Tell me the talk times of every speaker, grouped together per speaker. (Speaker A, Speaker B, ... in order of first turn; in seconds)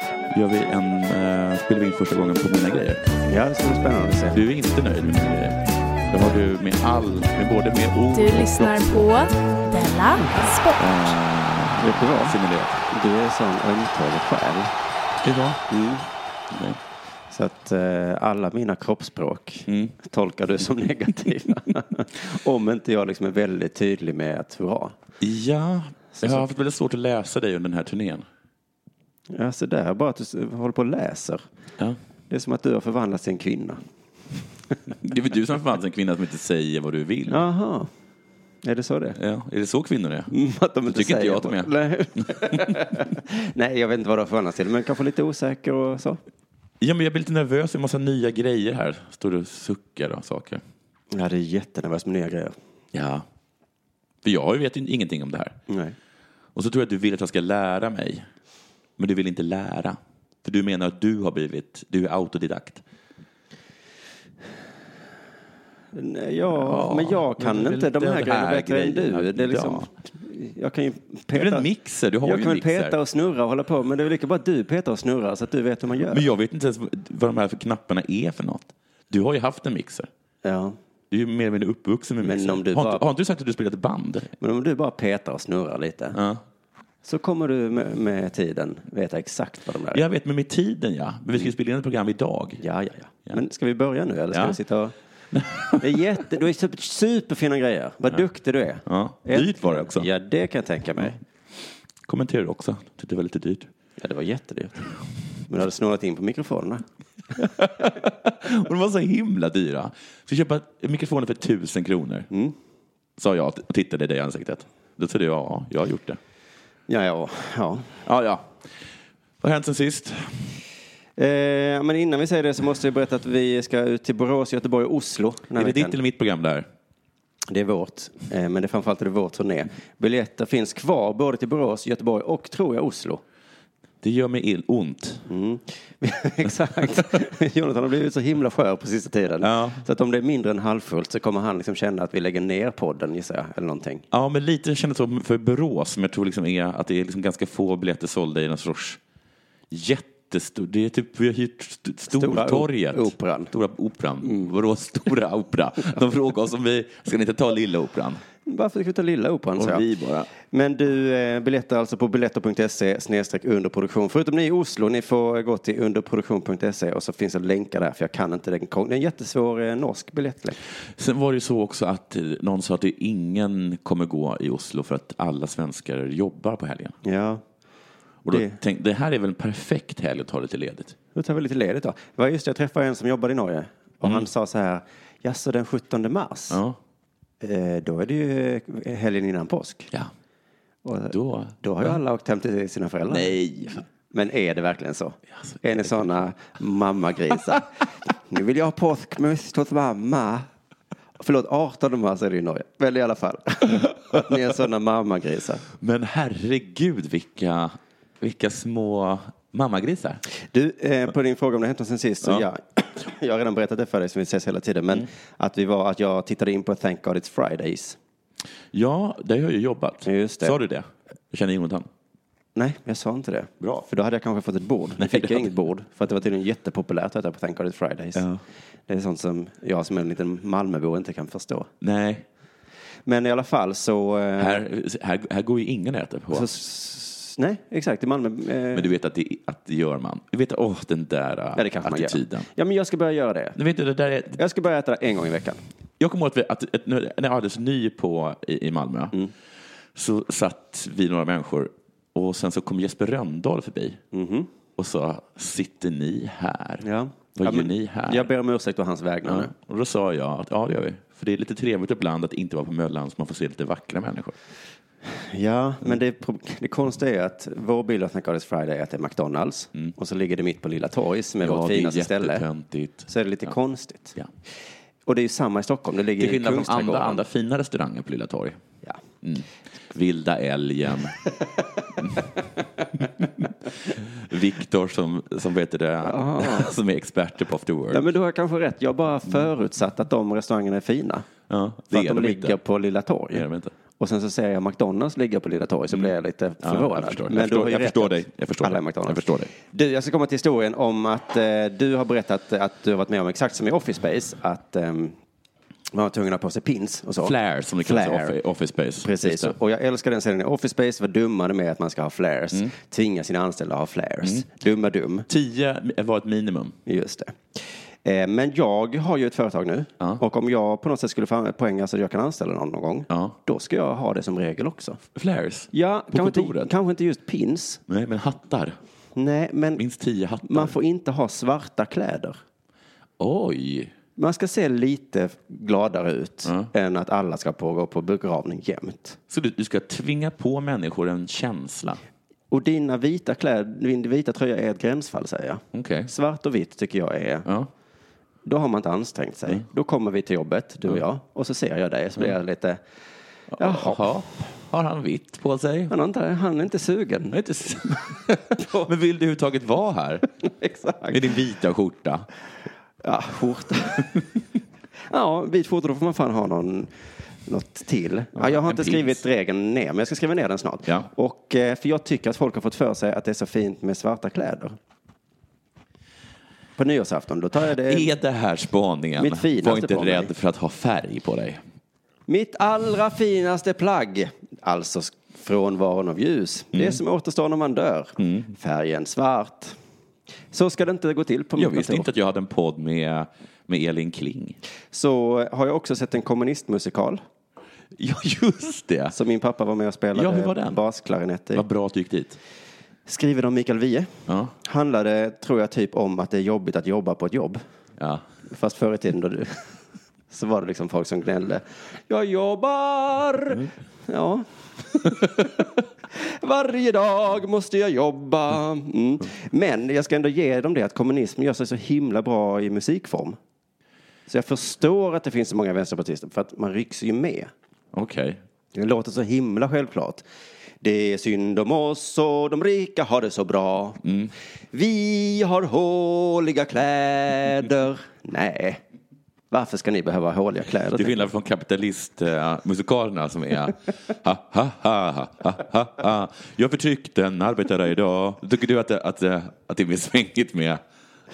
Speaker A: 0.3-3.0, 4.3-9.0, 10.8-12.8, 15.2-15.6, 16.5-16.8, 19.7-20.0, 25.2-28.2, 34.9-37.4, 39.2-40.3, 40.9-41.7, 46.8-50.6, 52.9-53.2, 54.2-55.6, 56.5-58.3, 59.0-62.8, 66.5-69.9, 71.3-73.0, 76.1-80.1, 81.1-84.3, 86.1-86.4, 89.9-92.6, 94.3-94.6, 95.3-96.0, 98.9-100.1, 102.1-103.7, 107.3-112.3, 113.2-116.2, 118.0-118.5, 119.4-120.6, 125.6-126.7, 134.0-135.3, 139.4-139.8, 144.1-149.0, 149.7-158.2, 159.6-160.3, 171.0-177.0, 178.2-181.0, 186.5-186.8, 191.1-192.0, 193.1-193.8, 195.3-196.2, 205.8-210.2, 218.7-221.9, 223.6-223.9, 225.0-225.6, 228.2-228.4, 231.8-232.2, 234.4-236.5, 238.7-242.5, 243.6-244.4, 246.0-249.2, 249.9-254.0, 254.8-258.3, 259.2-264.4, 271.4-273.5, 276.2-278.6, 279.2-281.2, 283.9-288.0, 291.5-292.6, 293.3-293.7, 295.9-299.5, 307.2-309.6, 315.3-316.8, 323.1-323.4, 325.1-326.7, 327.9-328.8, 329.8-330.8, 333.2-333.9, 336.4-336.7, 339.3-342.0, 345.7-346.1, 353.5-355.9, 357.3-360.3, 361.1-362.3, 368.4-369.2, 377.8-381.6, 388.2-388.5, 391.6-394.6, 398.0-399.1, 400.1-400.8, 401.6-402.4, 404.3-404.5, 427.9-428.4, 434.0-434.3, 440.9-450.8
Speaker B: 3.3-4.4, 11.8-12.4, 12.9-14.7, 15.7-16.1, 17.3-24.9, 26.2-26.5, 29.3-31.4, 32.3-33.8, 37.3-37.9, 38.6-39.2, 40.3-46.2, 51.1-52.6, 55.7-56.0, 65.9-71.7, 72.2-76.3, 80.4-80.8, 82.2-83.0, 84.4-86.2, 87.0-90.0, 92.6-94.9, 95.8-101.2, 104.0-104.8, 105.5-106.8, 116.9-117.9, 121.2-126.0, 127.5-133.2, 135.3-144.1, 152.1-153.5, 158.4-159.8, 160.4-170.6, 177.0-177.4, 178.3-178.5, 181.2-186.6, 187.4-189.9, 190.8-193.4, 194.1-197.7, 198.3-200.5, 201.2-205.7, 210.5-218.0, 220.1-220.6, 222.6-228.2, 228.9-231.7, 233.1-234.6, 236.3-238.9, 241.6-243.6, 244.4-245.6, 254.1-254.5, 256.8-259.5, 265.2-272.4, 273.1-274.1, 275.1-277.2, 286.1-286.7, 287.9-291.3, 291.9-293.5, 294.0-305.1, 305.9-308.4, 309.0-315.3, 316.9-325.0, 325.7-327.8, 329.1-329.8, 330.4-332.4, 334.2-339.2, 342.5-347.5, 348.4-352.8, 353.6-354.1, 355.9-357.4, 360.5-361.2, 363.0-364.2, 365.1-366.9, 367.5-374.8, 376.8-378.1, 379.2-380.3, 382.3-389.8, 390.5-392.1, 394.9-397.2, 399.1-401.6, 403.1-407.6, 408.5-409.7, 410.3-423.4, 424.3-427.5, 428.7-430.2, 430.8-434.0, 434.7-438.8, 439.5-441.2
Speaker C: 8.1-11.1